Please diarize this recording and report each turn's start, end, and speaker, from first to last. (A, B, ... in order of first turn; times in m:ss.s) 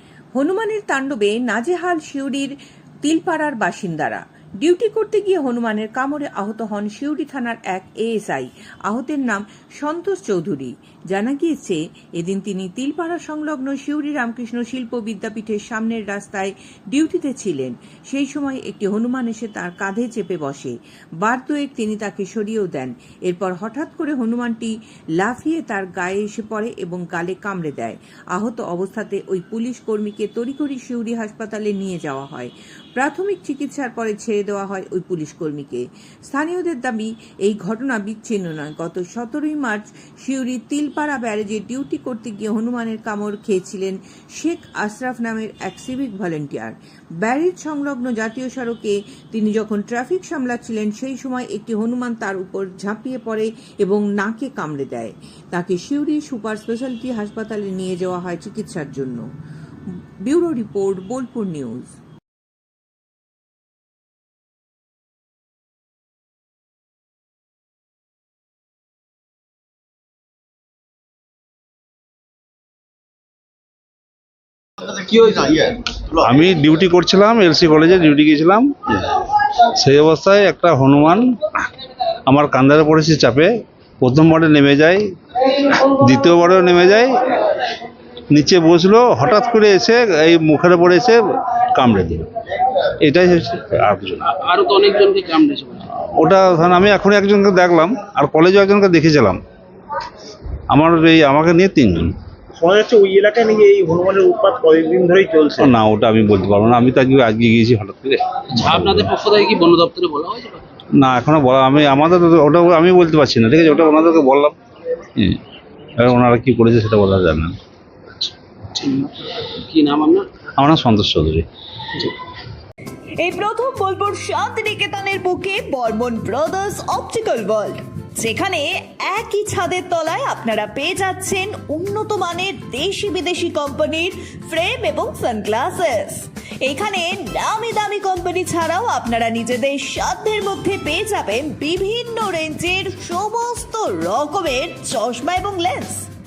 0:00.3-0:59.2 A
1:00.2-1:01.9 A
1:15.1-1:21.3 B
1:22.2-1:27.8 B
1:28.3-1:32.3 B
1:33.0-1:34.2 B
1:34.3-1:35.8 C
1:36.0-1:39.4 B
1:40.7-1:42.1 B
1:42.6-1:45.7 D
1:45.6-1:49.1 B
1:48.6-1:50.8 C
1:51.0-1:54.6 B
1:55.1-1:55.4 B
1:56.0-1:57.6 B
1:58.2-2:00.3 C
2:00.6-2:01.4 B
2:03.2-2:26.1 E